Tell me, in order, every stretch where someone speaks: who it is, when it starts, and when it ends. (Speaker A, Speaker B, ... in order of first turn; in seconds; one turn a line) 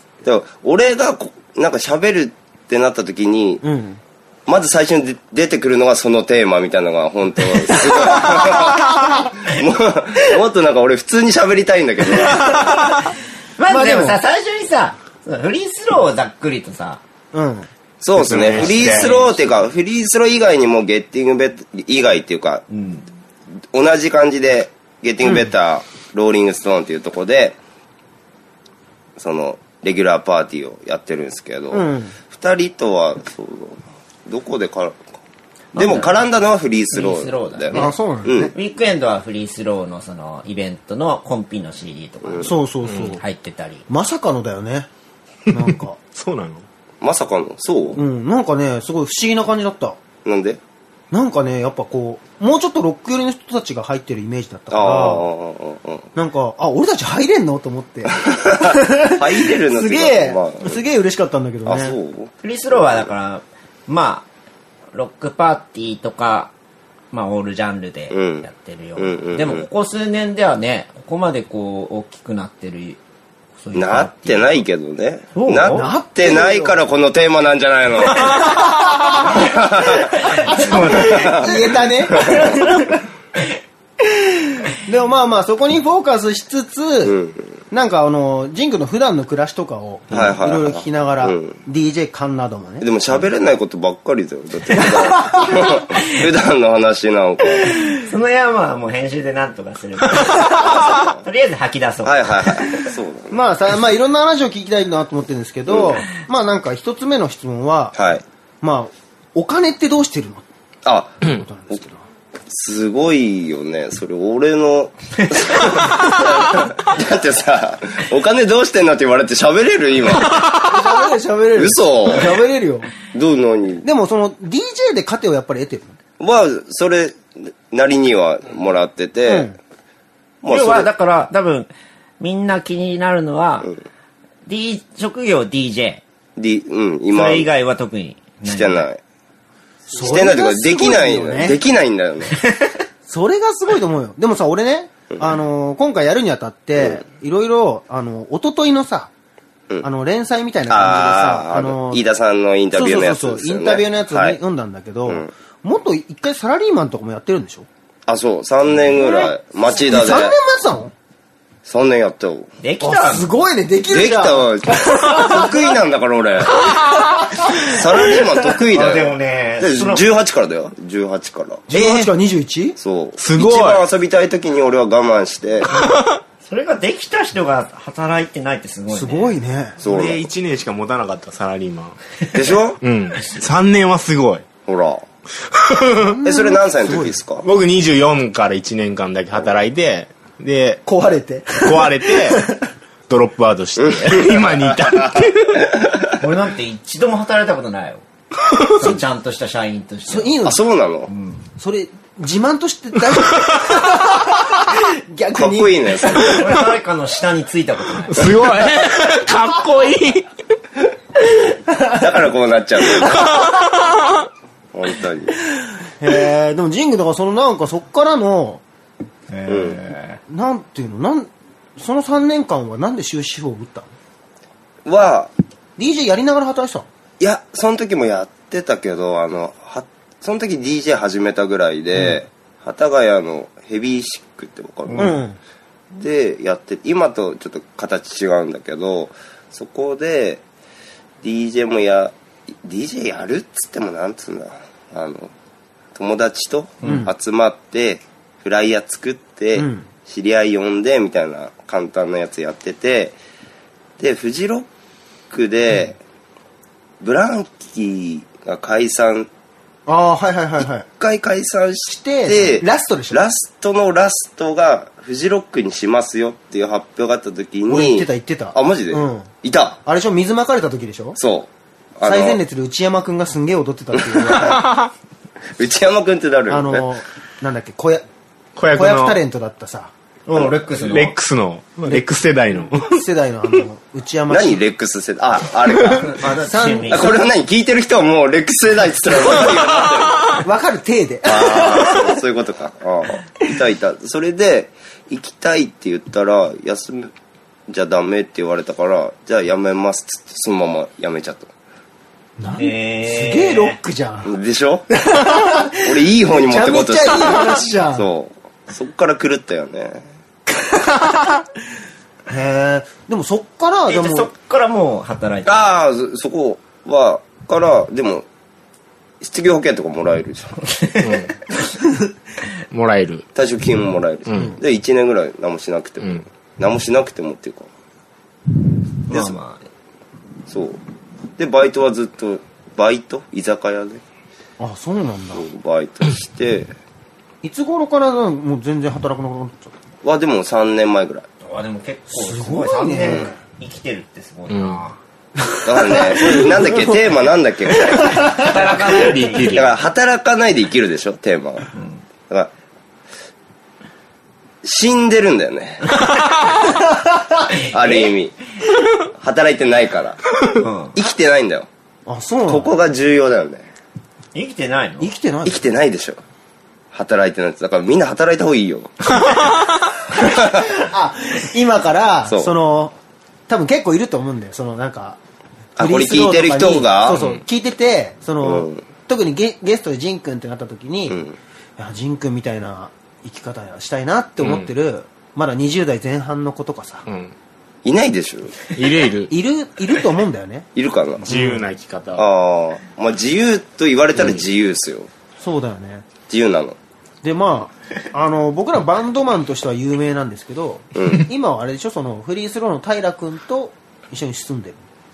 Speaker A: 0.2-3.6
Speaker B: 3.6-4.0
Speaker A: 4.5-12.6
Speaker C: 7.7-8.7
Speaker C: 12.4-17.0
Speaker B: 13.7-14.2
Speaker B: 17.3-17.7
Speaker A: 18.0-22.6
Speaker D: 18.2-19.1
Speaker C: 18.3-19.7
Speaker C: 22.7-23.1
Speaker A: 23.7-27.6
Speaker A: 29.2-35.1
Speaker B: 31.7-32.1
Speaker C: 35.7-36.2
Speaker A: 35.7-38.5
Speaker C: 36.9-37.9
Speaker B: 37.7-38.5
Speaker C: 38.5-42.5
Speaker B: 42.4-43.2
Speaker C: 43.2-43.8
Speaker B: 43.9-44.9
Speaker B: 45.5-46.0
Speaker D: 45.5-46.6
Speaker A: 47.0-48.0
Speaker B: 47.9-50.0
Speaker A: 50.2-50.6
Speaker B: 51.1-55.3
Speaker A: 54.7-56.1
Speaker B: 56.1-62.0
Speaker A: 58.4-60.8
Speaker A: 61.6-63.1
Speaker C: 62.4-64.2
Speaker C: 64.9-66.5
Speaker C: 67.1-73.0
Speaker A: 68.1-69.7
Speaker C: 73.6-74.7
Speaker A: 73.7-78.4
Speaker C: 75.3-75.9
Speaker B: 75.7-76.8
Speaker B: 79.0-79.2
Speaker A: 79.3-80.2
Speaker C: 80.4-82.8
Speaker B: 80.4-82.5
Speaker A: 80.7-81.5
Speaker A: 82.1-82.5
Speaker B: 84.8-87.2
Speaker A: 87.0-87.5
Speaker B: 87.7-92.9
Speaker A: 90.1-91.6
Speaker A: 92.8-97.7
Speaker B: 94.8-95.4
Speaker C: 97.8-102.8
Speaker A: 100.6-101.2
Speaker A: 102.0-103.4
Speaker B: 103.3-108.0
Speaker A: 105.7-106.0
Speaker A: 107.9-108.2
Speaker B: 108.6-110.5
Speaker A: 110.8-111.2
Speaker B: 111.2-112.0
Speaker A: 112.5-120.4
Speaker B: 120.6-122.9
Speaker A: 121.5-122.4
Speaker A: 123.1-123.8
Speaker B: 123.8-126.0
Speaker A: 126.2-129.5
Speaker B: 129.3-129.6
Speaker A: 130.4-130.9
Speaker C: 130.4-131.7
Speaker C: 132.2-133.7
Speaker C: 134.4-136.0
Speaker A: 136.4-137.5
Speaker C: 137.1-138.9
Speaker A: 138.4-139.0
Speaker B: 139.9-141.6
Speaker A: 139.9-142.3
Speaker C: 142.4-142.7
Speaker B: 143.1-149.1
Speaker B: 149.8-152.0
Speaker A: 150.7-154.4
Speaker B: 152.7-157.7
Speaker A: 158.1-160.3
Speaker C: 158.9-159.3
Speaker B: 159.9-160.9
Speaker A: 161.6-162.5
Speaker C: 162.6-163.3
Speaker B: 162.8-165.4
Speaker A: 163.9-166.6
Speaker A: 167.6-171.7
Speaker C: 168.7-170.1
Speaker B: 171.7-172.8
Speaker A: 172.8-175.7
Speaker D: 173.2-173.8
Speaker C: 176.4-179.3
Speaker B: 178.9-179.8
Speaker A: 179.8-180.2
Speaker D: 179.8-182.0
Speaker A: 182.3-182.8
Speaker D: 182.8-184.5
Speaker A: 184.6-185.0
Speaker D: 185.5-186.1
Speaker B: 186.1-187.2
Speaker A: 186.2-187.5
Speaker D: 187.4-190.8
Speaker B: 190.8-192.5
Speaker D: 191.6-192.5
Speaker D: 193.1-195.7
Speaker A: 193.8-195.2
Speaker A: 195.8-196.1
Speaker C: 196.2-198.0
Speaker C: 198.7-200.4
Speaker B: 200.1-200.6
Speaker A: 200.4-201.1
Speaker C: 201.1-201.4
Speaker B: 201.6-206.2
Speaker A: 205.3-206.6
Speaker C: 206.1-208.4
Speaker D: 208.1-210.3
Speaker A: 211.9-213.3
Speaker A: 214.7-215.3
Speaker B: 216.0-218.6
Speaker C: 219.3-220.2
Speaker A: 219.5-219.8
Speaker B: 220.3-223.9
Speaker A: 224.8-225.3
Speaker B: 225.8-226.9
Speaker A: 227.2-235.2
Speaker C: 234.9-235.2
Speaker B: 234.9-235.4
Speaker A: 235.9-240.4
Speaker A: 241.2-245.3
Speaker A: 245.9-253.2
Speaker B: 246.8-247.1
Speaker B: 249.5-249.9
Speaker A: 254.0-254.7
Speaker A: 255.3-256.0
Speaker A: 257.0-259.3
Speaker B: 259.9-260.9
Speaker A: 260.6-269.8
Speaker B: 261.9-263.2
Speaker B: 267.7-269.3
Speaker B: 269.8-271.2
Speaker A: 271.1-272.4
Speaker B: 272.0-274.7
Speaker A: 275.6-276.9
Speaker B: 276.5-278.0
Speaker D: 278.6-279.2
Speaker B: 278.7-279.9
Speaker C: 280.3-281.1
Speaker D: 280.8-283.0
Speaker B: 281.8-284.6
Speaker A: 284.3-286.2
Speaker C: 286.0-287.2
Speaker B: 286.2-287.1
Speaker A: 286.9-290.4
Speaker B: 290.4-292.1
Speaker A: 291.2-297.1
Speaker A: 297.7-301.5
Speaker B: 302.4-304.3
Speaker C: 302.6-303.8
Speaker A: 304.2-304.9
Speaker B: 304.9-308.1
Speaker A: 305.8-310.1
Speaker B: 312.3-314.3
Speaker C: 313.9-315.7
Speaker A: 315.4-318.2
Speaker A: 319.2-320.6
Speaker C: 320.8-321.1
Speaker D: 321.0-321.3
Speaker D: 322.7-323.2
Speaker A: 323.3-327.7
Speaker B: 324.3-324.6
Speaker C: 329.1-329.6
Speaker A: 330.5-330.8
Speaker A: 331.4-334.0
Speaker B: 334.6-335.4
Speaker A: 335.3-336.7
Speaker B: 337.4-339.7
Speaker A: 340.0-341.3
Speaker C: 341.4-345.0
Speaker B: 342.1-343.4
Speaker A: 343.0-343.3
Speaker D: 344.5-344.8
Speaker B: 345.6-346.4
Speaker A: 345.6-348.4
Speaker C: 348.2-349.7
Speaker D: 348.6-349.7
Speaker A: 349.5-351.7
Speaker C: 351.7-352.0
Speaker A: 354.6-355.9
Speaker A: 357.7-358.3
Speaker C: 357.7-358.1
Speaker A: 359.1-360.2
Speaker C: 360.6-360.9
Speaker A: 360.9-361.7
Speaker B: 362.1-362.8
Speaker A: 362.5-363.7
Speaker C: 364.3-365.1
Speaker B: 365.0-365.6
Speaker A: 365.4-366.2
Speaker A: 366.9-368.9
Speaker B: 370.5-372.9
Speaker A: 372.3-372.5
Speaker B: 373.5-375.2
Speaker A: 375.8-377.2
Speaker B: 375.8-381.2
Speaker A: 378.4-378.8
Speaker A: 381.1-381.4
Speaker B: 381.8-387.1
Speaker D: 384.4-384.7
Speaker D: 387.1-387.3
Speaker A: 387.8-388.5
Speaker D: 388.7-389.3
Speaker B: 389.3-390.7
Speaker A: 390.7-391.3
Speaker B: 391.2-391.6
Speaker D: 391.2-392.2
Speaker A: 392.1-395.1
Speaker B: 395.4-396.1
Speaker A: 396.3-396.8
Speaker B: 397.2-404.8
Speaker A: 400.9-401.2